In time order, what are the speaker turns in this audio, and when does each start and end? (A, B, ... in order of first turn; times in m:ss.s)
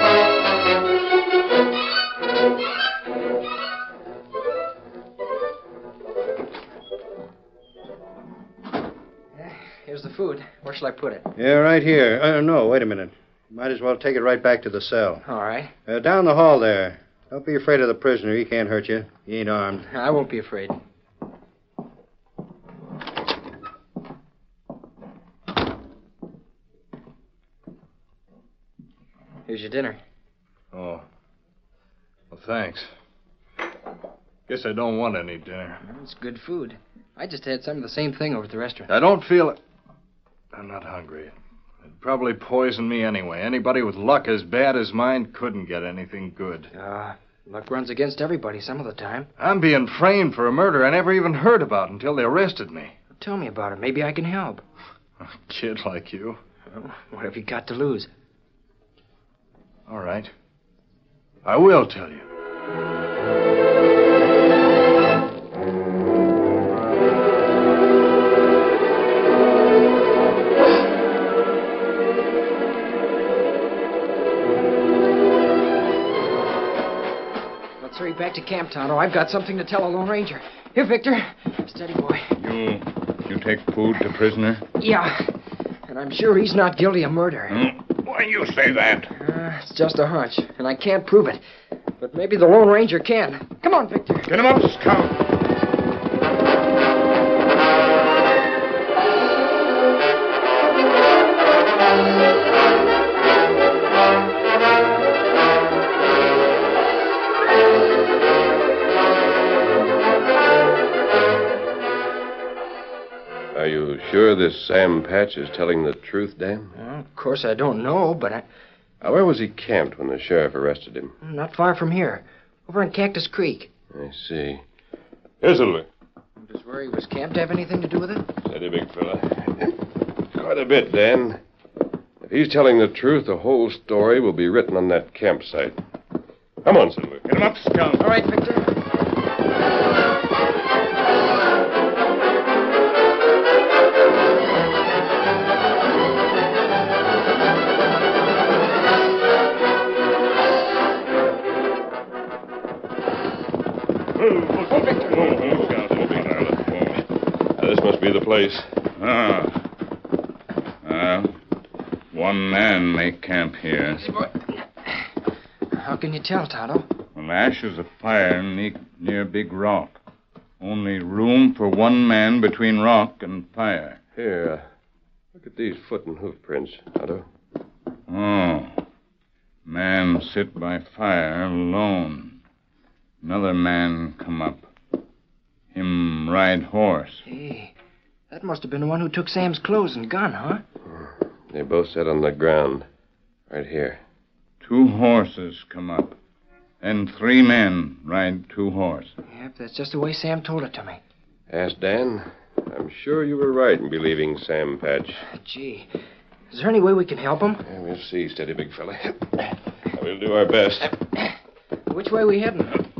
0:09.4-0:11.3 A
0:11.4-0:15.2 B
0:15.2-0:15.7 A
0:15.9-0:19.8 B
0:19.8-0:20.8 A
0:29.5-0:30.0 A
0:30.7-0:31.0 C
0:32.3-0:32.9 C
0:34.5-0:35.8 C
0:35.8-0:38.9 A
0:38.9-0:39.6 C
0:40.5-0:41.3 C
0:41.8-0:46.7 C
0:46.7-0:49.3 A
0:49.4-0:52.9 C
0:53.2-0:54.6 A
0:55.2-0:56.4 C
0:56.7-0:58.1 A
0:59.9-1:00.3 C
1:01.4-1:02.2 C
1:17.8-1:22.3 A
1:22.4-1:24.6 D
1:24.8-1:25.4 A
1:25.9-1:27.7 A
1:27.5-1:29.1 D
1:29.1-1:31.4 A
1:32.0-1:34.3 A
1:34.3-1:35.1 D
1:53.5-1:56.7 E
1:56.8-1:58.4 A
1:59.0-2:01.1 E
2:01.2-2:03.7 A
2:03.9-2:04.6 E
2:05.4-2:05.9 E
2:06.4-2:08.3 A
2:08.5-2:09.8 E
2:10.3-2:11.4 E
2:12.2-2:15.8 E
2:16.6-2:17.3 E
2:17.2-2:18.0 D
2:17.9-2:18.7 A
2:34.5-2:36.6 E
2:34.6-2:37.0 D
2:37.6-2:38.7 E
2:39.0-2:39.5 D
2:40.8-2:41.3 D
2:42.1-2:44.0 D
2:45.7-2:46.9 A
2:47.1-2:50.0 D
2:50.6-2:54.0 D
2:54.2-2:54.6 E
2:55.4-2:57.3 E
2:58.1-2:58.8 D
2:59.6-3:02.4 D
3:03.2-3:04.6 D
3:05.7-3:07.2 D
3:07.2-3:07.8 A
3:08.3-3:10.6 A
3:11.0-3:12.9 E
3:13.5-3:14.0 E
3:14.6-3:16.1 D
3:16.8-3:19.1 D
3:19.3-3:21.0 A
3:21.5-3:25.2 E
3:25.3-3:25.9 A
3:26.5-3:27.6 A
3:27.6-3:31.0 E
3:31.9-3:32.8 A